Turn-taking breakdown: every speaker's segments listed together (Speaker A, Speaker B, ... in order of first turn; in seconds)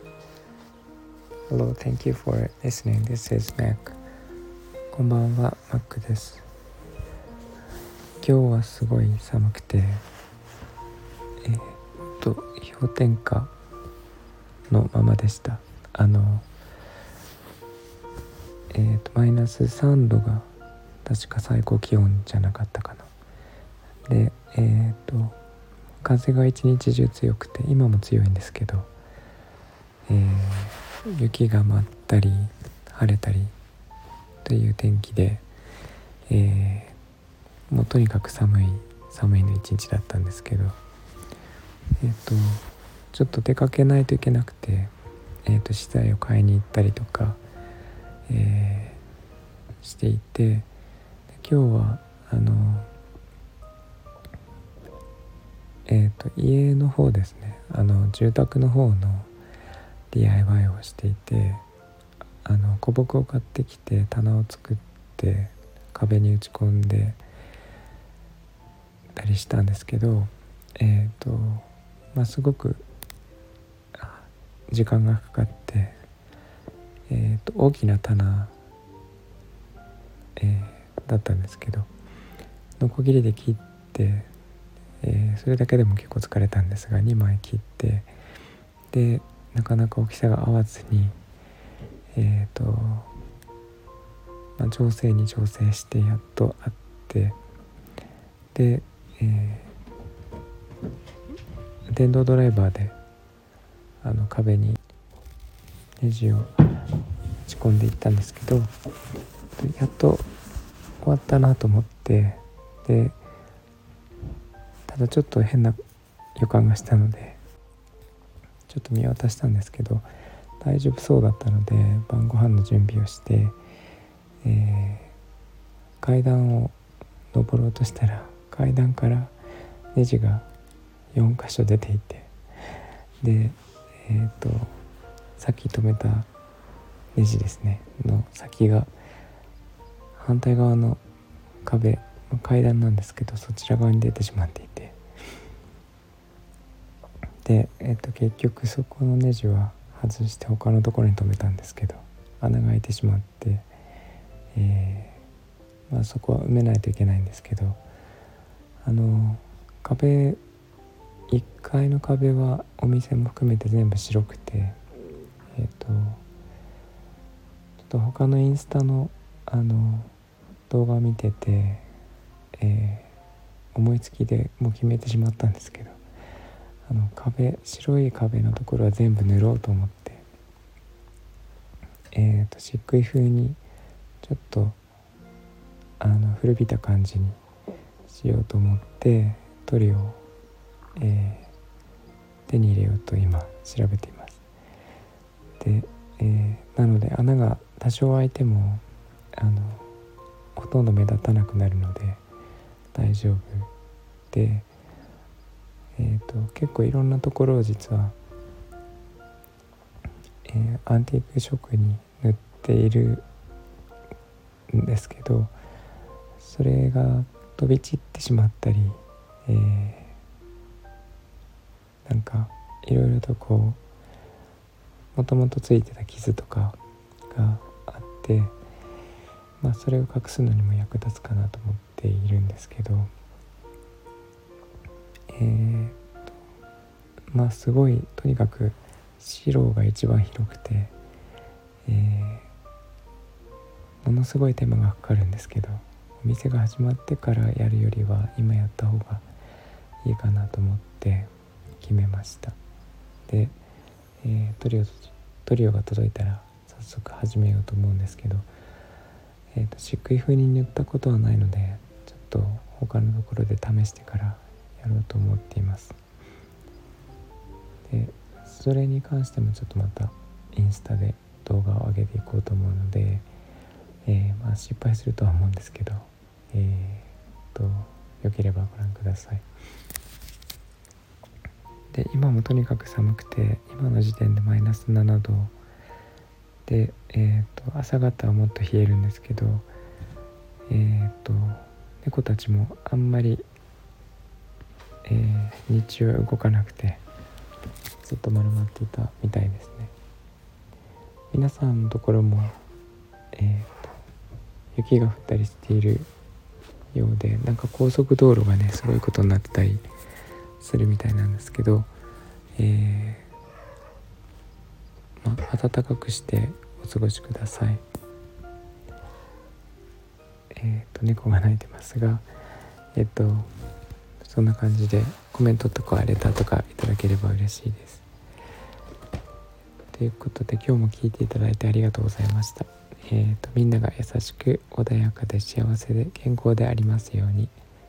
Speaker A: 1.5-4.0, 4.9-6.5, 8.2-10.0, 11.4-13.5, 14.7-16.5, 18.7-20.5, 21.0-23.1, 24.1-25.4, 26.0-28.9, 30.1-33.5, 34.5-35.5, 36.3-37.0, 37.7-40.8, 42.0-44.9, 45.5-47.4, 48.3-49.0, 49.8-50.7, 51.3-52.9, 55.9-59.3, 60.1-61.6, 62.4-67.2, 69.2-72.8, 74.0-76.0, 77.1-78.5, 80.4-81.9, 82.8-84.3, 85.0-88.1, 88.9-91.2, 92.1-93.1, 94.6-97.4, 98.5-99.7, 101.9-103.0, 104.0-104.8, 106.0-106.6, 107.4-108.7, 109.6-110.3, 111.0-113.2, 114.9-115.8, 116.4-117.4, 118.7-120.1, 120.6-123.6, 124.4-125.1, 126.0-126.8, 127.3-129.4, 129.9-130.5, 131.1-132.3, 133.2-134.8, 135.4-136.3, 137.2-138.9, 140.2-141.0, 141.7-145.0, 147.4-153.7, 154.5-155.2, 155.9-157.8, 158.8-160.4, 161.3-164.8, 165.5-166.2, 167.9-170.1, 170.7-171.9, 172.6-173.1, 173.7-176.0, 176.9-180.2, 182.1-183.6, 184.2-184.8, 186.0-187.4, 188.1-190.2, 191.0-191.5, 192.5-194.4, 195.6-198.8, 199.3-199.9, 200.6-202.2, 202.9-203.7, 204.3-204.7, 206.0-208.2, 210.4-213.2, 214.7-215.6, 216.4-220.2, 222.1-223.8, 225.2-226.8, 227.3-228.6, 229.6-233.1, 235.3-236.0, 237.3-240.9, 241.8-242.5, 244.0-249.3, 250.0-252.6, 253.3-253.6, 254.2-258.5, 259.5-266.0, 267.9-273.3, 274.1-279.4, 281.9-285.5, 286.7-289.7, 290.7-293.4, 295.0-297.0, 298.0-299.9, 301.3-302.6, 303.3-304.0, 304.7-306.1, 306.9-309.9, 310.6-311.9, 312.6-313.3, 315.2-317.8, 320.5-322.3, 322.9-323.5, 324.2-328.1, 329.9-337.6